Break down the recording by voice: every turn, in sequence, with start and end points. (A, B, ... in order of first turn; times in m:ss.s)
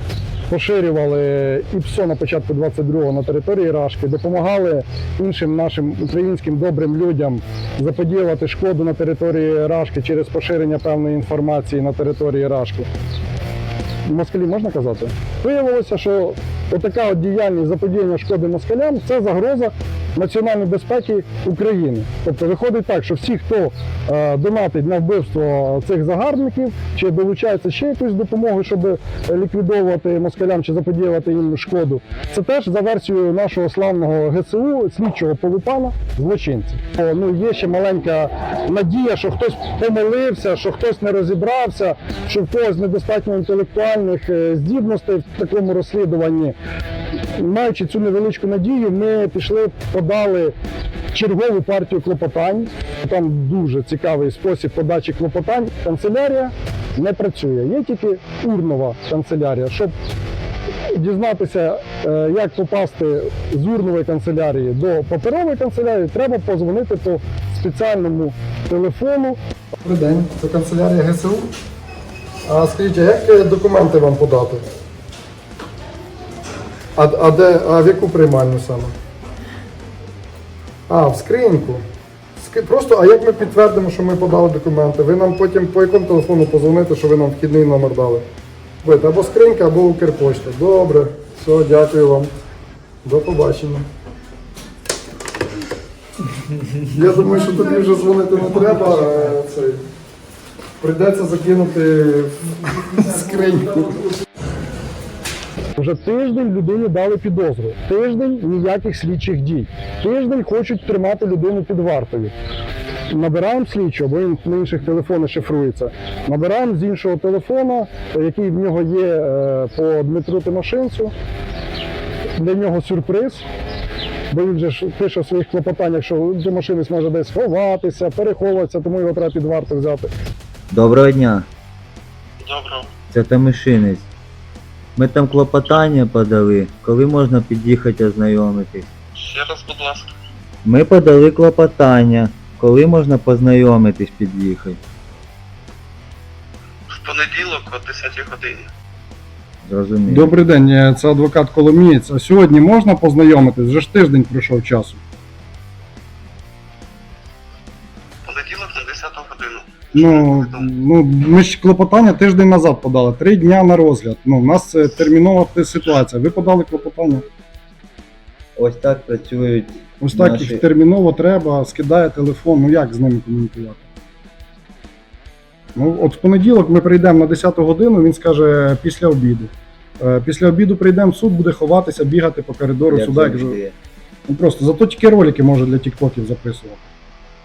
0:00.5-0:12.9 A
0:14.1-0:46.6 A
0:47.4-0:50.5 A
0:51.1-0:59.9 A
1:00.9-1:11.5 A
1:12.5-1:14.6 A
1:17.0-1:18.9 A
1:20.9-1:21.8 A
1:22.4-1:28.2 A
1:28.8-1:32.3 A
1:33.0-1:33.8 A
1:36.8-1:39.8 A
1:40.8-1:44.1 A
1:45.8-1:52.3 A
1:53.1-2:01.1 A
2:02.4-2:03.5 A
2:04.3-2:10.1 A
2:10.7-2:11.5 B
2:12.4-2:12.9 C
2:13.1-2:14.1 B
2:15.0-2:18.9 B
2:19.2-2:20.1 C
2:20.6-2:24.8 B
2:26.9-2:28.7 C
2:29.6-2:30.3 B
2:30.1-2:35.0 A
2:38.2-2:40.6 C
2:40.0-2:47.2 A
2:48.6-2:50.6 B
2:50.0-2:53.9 A
2:55.8-3:03.6 A
3:02.9-3:03.8 B
3:04.3-3:06.8 A